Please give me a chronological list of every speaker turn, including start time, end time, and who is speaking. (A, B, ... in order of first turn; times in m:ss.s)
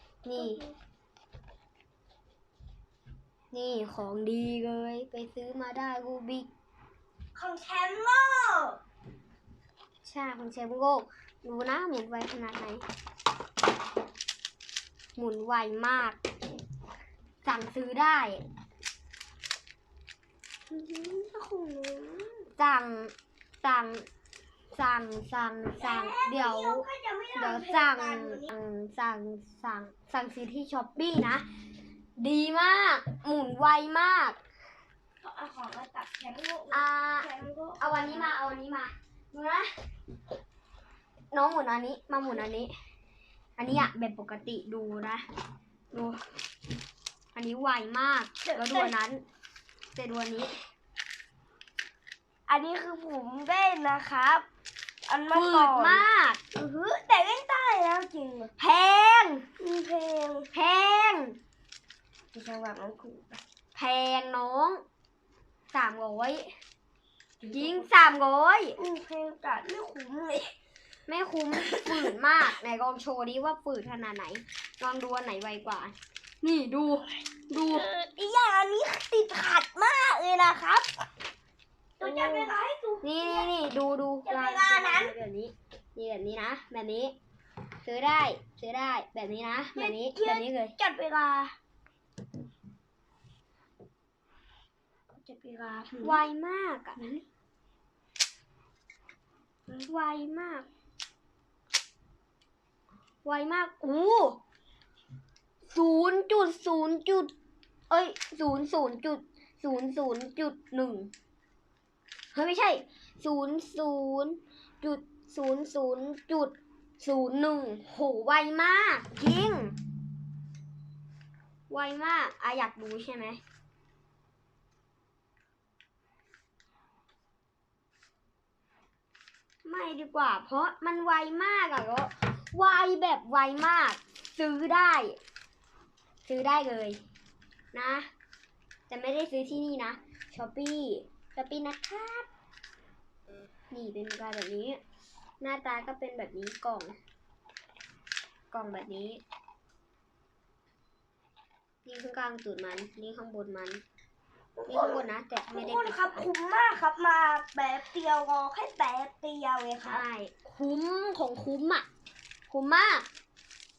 0:00.2-0:00.6 A
0:00.3-0:00.8 B
0:03.5-0:06.5 A
0:07.3-0:08.8 B
0:10.0-0:12.8 A
0:15.2-0:16.2 A
0:17.4-0:18.4 A
0:20.7-0:22.5 B
0:22.6-0:24.0 A
0:24.7-0:31.4 A
0:25.8-0:28.5 B
0:32.2-0:34.4 A
0:35.2-0:38.4 B
0:36.7-0:37.3 A
0:37.8-0:39.7 A
0:41.3-0:42.7 A
0:43.6-0:45.2 A
0:45.9-0:46.2 A
0:47.3-0:49.2 A
0:48.4-0:49.0 B
0:49.9-0:50.5 A
0:52.5-0:54.4 B
0:55.0-0:58.5 B
0:55.3-0:56.4 A
0:58.6-0:59.4 A
0:59.6-1:00.5 B
1:00.5-1:01.4 A
1:02.3-1:03.4 B
1:03.7-1:04.8 A
1:05.7-1:06.5 A
1:07.4-1:08.0 B
1:07.5-1:08.8 A
1:08.8-1:10.5 B
1:11.1-1:17.9 A
1:17.5-1:20.9 B
1:22.0-1:23.5 B
1:22.0-1:27.2 A
1:24.2-1:25.2 B
1:27.8-1:30.8 A
1:29.7-1:31.5 B
1:35.1-1:36.2 B
1:36.0-1:37.0 A
1:37.0-1:37.2 B
1:39.9-1:40.7 A
1:43.2-1:44.4 A
1:45.7-1:47.3 A
1:47.9-1:51.1 A
1:52.3-1:59.8 A
2:01.7-2:03.4 A
2:09.6-2:15.2 A
2:16.2-2:17.0 A
2:17.7-2:18.1 A
2:18.9-2:22.3 A
2:23.7-2:24.8 A
2:25.4-2:27.0 A
2:28.5-2:29.2 A
2:31.8-2:33.8 A
2:34.6-2:40.0 B
2:34.7-2:36.2 A
2:39.8-2:41.8 A
2:42.5-2:43.1 A